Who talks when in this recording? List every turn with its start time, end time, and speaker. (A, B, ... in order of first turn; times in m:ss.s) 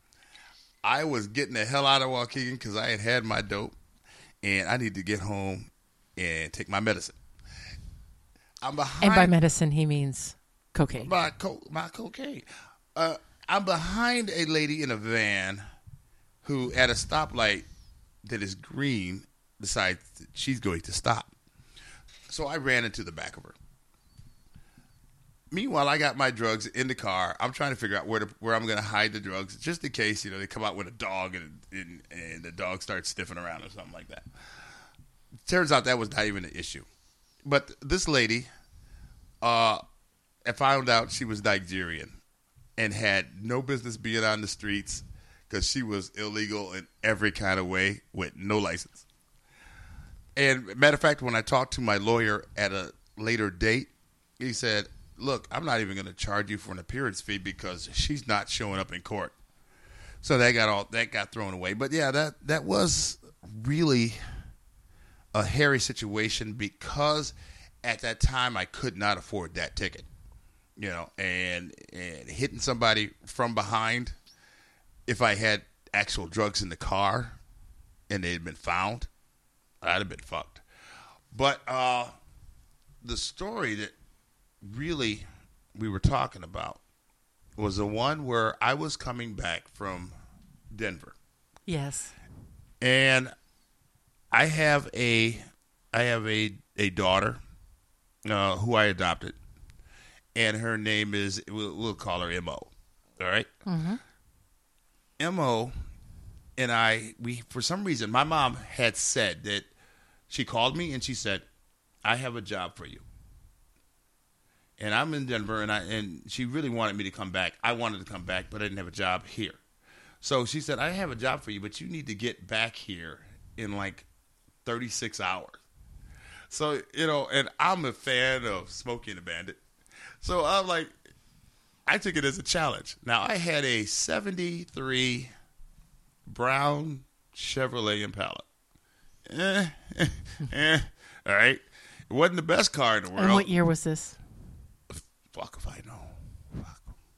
0:00.8-0:03.8 A
0:04.4-0:07.2 A
0:08.6-0:09.3 A
0:09.0-0:11.1 B
0:11.0-0:15.6 A
0:16.4-0:17.7 A
0:18.2-0:21.3 A
0:22.3-0:23.6 A
0:25.5-0:34.3 A
0:35.5-0:36.9 A
0:37.4-0:38.5 A
0:39.4-0:39.8 A
0:40.4-0:42.2 A
0:42.8-0:49.0 A
0:50.4-0:59.4 A
1:00.2-1:04.2 A
1:05.3-1:10.1 A
1:10.8-1:14.2 A
1:15.1-1:17.4 A
1:18.1-1:19.1 A
1:19.8-1:20.6 A
1:21.3-1:22.1 A
1:23.0-1:23.9 A
1:24.6-1:26.8 A
1:27.6-1:30.1 A
1:30.7-1:31.2 A
1:31.7-1:32.1 B
1:32.8-1:33.3 A
1:34.3-1:37.4 A
1:38.2-1:39.4 A
1:40.4-1:43.5 A
1:43.7-1:44.0 B
1:45.2-1:45.7 A
1:46.6-1:49.7 A
1:50.3-1:51.4 A
1:52.0-1:53.0 A
1:54.8-1:59.6 A
2:00.2-2:04.1 A
2:04.6-2:05.6 A
2:06.5-2:09.6 A
2:10.2-2:10.9 A
2:11.9-2:15.3 A
2:16.3-2:18.4 A
2:19.3-2:23.5 A
2:23.2-2:24.2 B
2:24.9-2:26.9 A